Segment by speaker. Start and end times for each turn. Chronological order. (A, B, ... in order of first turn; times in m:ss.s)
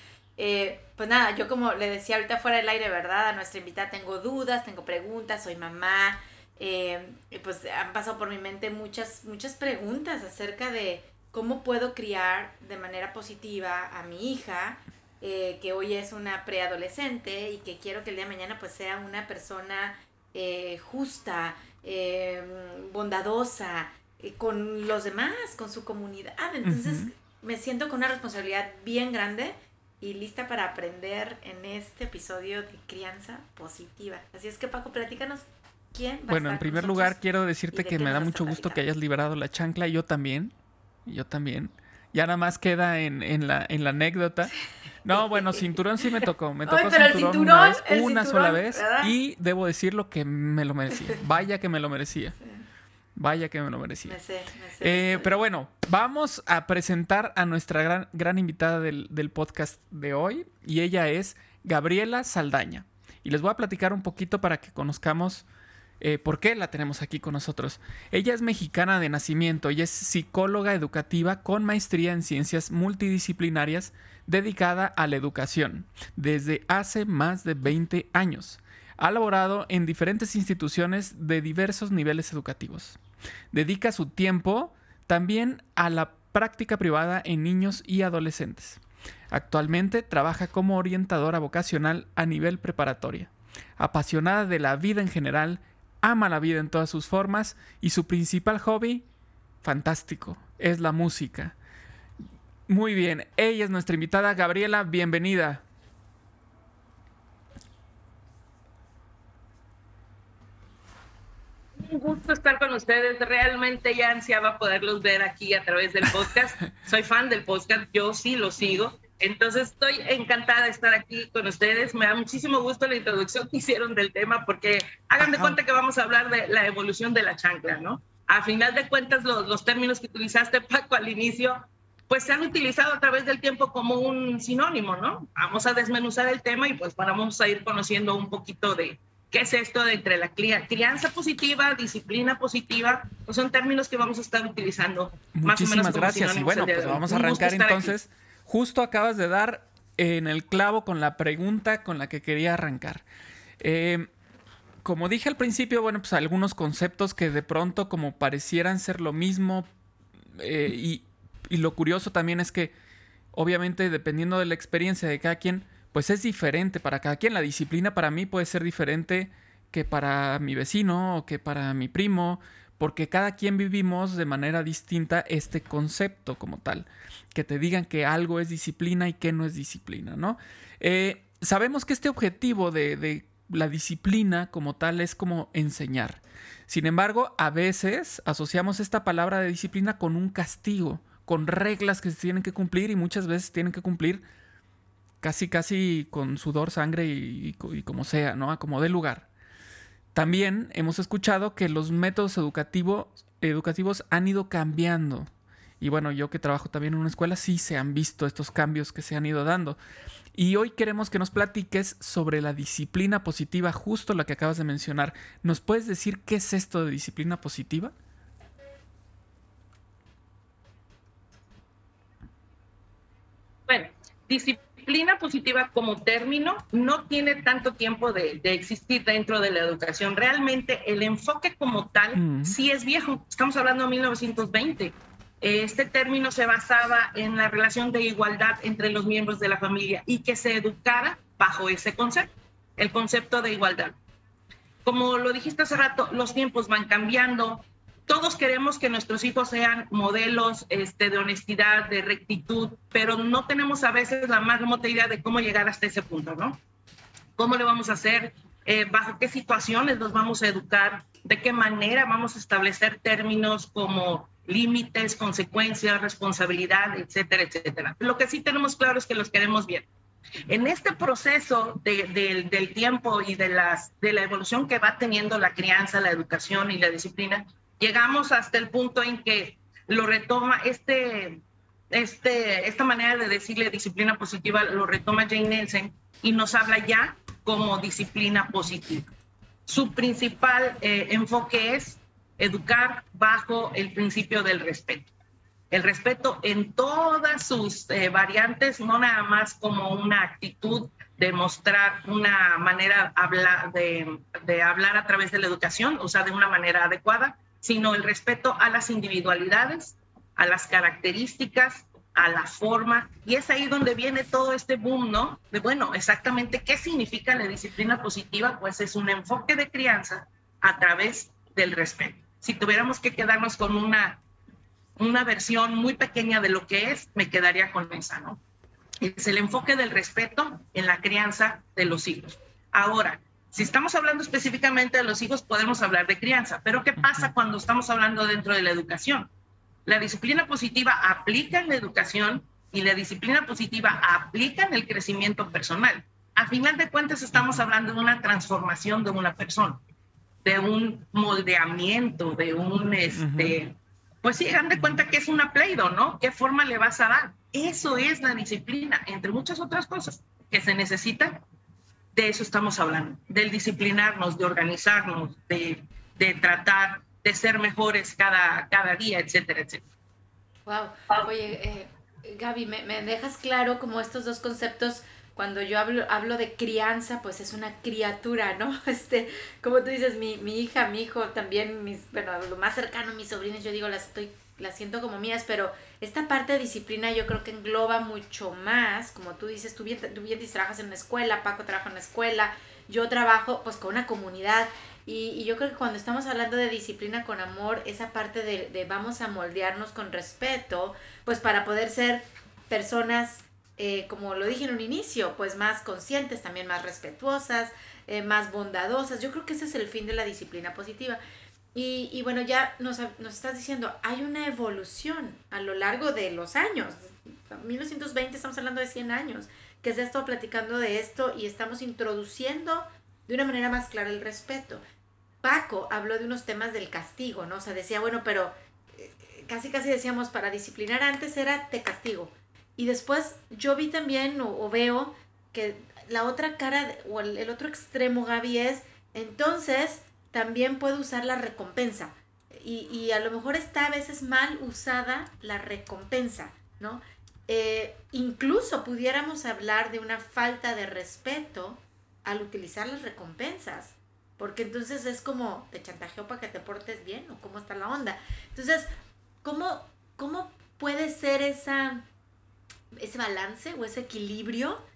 0:00.4-0:37.2 A
0:26.6-0:27.1 B
0:36.3-0:40.5 B
0:37.7-0:38.8 A
0:41.0-0:44.5 B
0:45.0-0:52.4 B
0:45.1-0:46.0 A
0:46.6-0:49.1 A
0:52.4-0:52.6 A
0:53.2-0:54.2 B
0:54.0-0:55.4 A
0:54.8-1:05.4 B
1:06.0-1:23.0 B
1:23.5-1:39.0 B
1:39.6-1:41.5 B
1:42.7-1:45.6 B
1:51.8-2:28.0 C
2:05.2-2:05.6 B
2:25.3-2:33.0 B
2:33.6-2:34.1 B
2:34.8-2:39.7 B
2:40.4-2:42.7 B
2:43.3-3:14.2 B
3:15.2-3:19.3 B
3:20.1-3:25.3 B
3:25.8-3:29.8 B
3:30.3-3:37.9 B
3:43.7-4:04.0 C
3:52.1-3:52.6 B
4:04.8-4:16.6 C
4:17.4-4:29.9 C
4:30.5-4:49.1 C
4:49.7-4:55.1 C
4:55.7-5:24.2 C
5:25.0-5:28.4 C
5:29.0-5:39.3 C
5:37.0-5:37.3 B
5:39.8-5:49.8 C
5:50.4-6:01.4 C
5:53.2-5:53.6 B
5:54.8-5:55.0 B
6:02.1-6:09.8 C
6:10.6-6:51.2 A
6:51.7-7:04.8 A
7:05.4-7:38.9 A
7:39.4-7:42.0 A
7:42.9-7:44.8 A